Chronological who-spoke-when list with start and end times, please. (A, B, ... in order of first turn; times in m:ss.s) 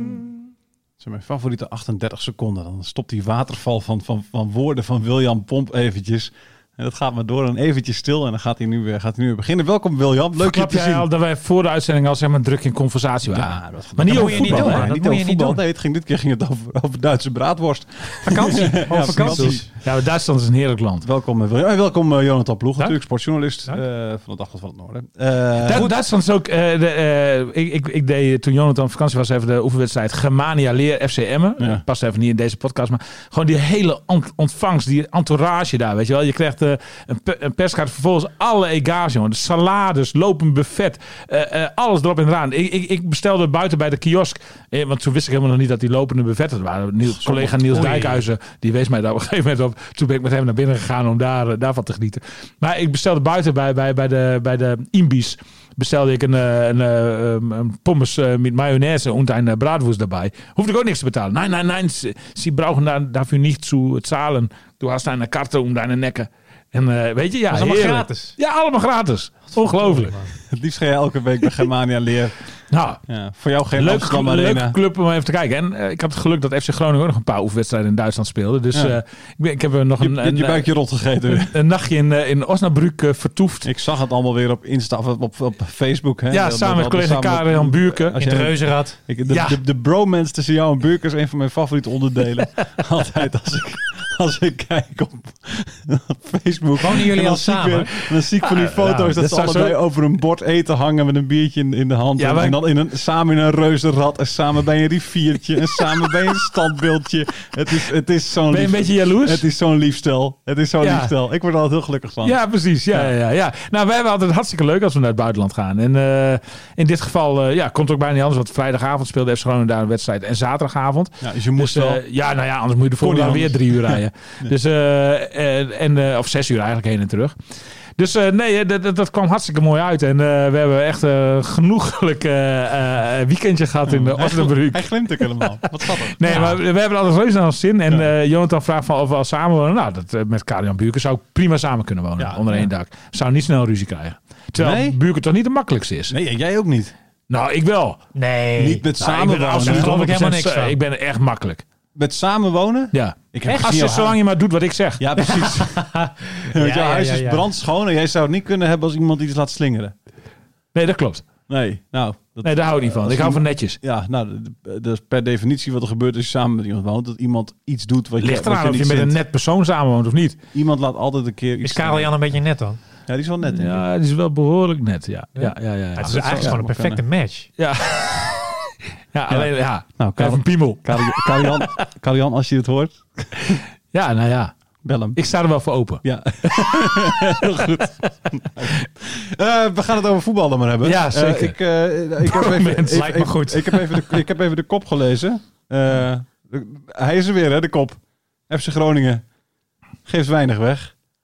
0:01.0-0:11.0 A
0:10.4-0:14.9 B
0:13.3-0:19.7 A
0:14.0-0:15.6 C
0:18.2-0:19.7 C
0:19.0-0:21.0 B
0:21.0-0:26.0 A
0:25.6-1:10.2 B
0:47.1-0:48.2 A
0:47.6-0:48.2 C
1:07.5-1:08.4 C
1:09.7-1:10.3 C
1:10.5-1:12.4 A
1:12.7-1:13.0 B
1:13.1-1:14.8 A
1:13.8-1:20.7 B
1:20.0-1:21.5 A
1:21.3-1:23.7 B
1:23.6-1:52.4 A
1:26.3-1:28.5 B
1:28.1-1:29.0 C
1:29.3-1:29.6 B
1:36.8-1:38.1 C
1:38.5-1:39.8 B
1:42.2-1:42.6 B
1:48.5-1:49.4 B
1:50.8-1:51.1 B
1:52.2-2:07.3 B
2:01.2-2:02.0 A
2:03.0-2:04.5 A
2:08.0-2:26.1 B
2:13.9-2:16.5 A
2:16.3-2:16.5 C
2:22.2-2:22.6 A
2:24.6-2:25.0 A
2:26.1-2:26.9 A
2:27.3-2:28.0 B
2:28.1-2:28.9 C
2:28.6-2:30.0 A
2:29.0-2:31.6 B
2:29.4-2:30.8 C
2:32.0-2:34.2 A
2:32.9-2:35.1 B
2:35.0-2:35.9 A
2:35.2-2:37.5 C
2:36.4-2:39.9 A
2:40.7-2:41.2 B
2:41.5-2:49.2 A
2:42.4-2:43.8 B
2:48.2-2:50.4 B
2:50.5-2:52.1 A
2:51.6-2:52.8 C
2:53.1-2:53.8 A
2:53.4-2:56.6 B
2:55.4-2:57.5 C
2:56.0-2:57.0 A
2:57.6-2:58.5 B
2:59.1-3:01.6 B
2:59.3-3:03.6 A
3:03.9-3:04.5 B
3:04.8-3:05.2 A
3:05.1-3:07.9 B
3:06.0-3:19.2 A
3:10.8-3:11.6 B
3:12.2-3:14.0 B
3:12.9-3:13.6 C
3:20.0-3:20.9 A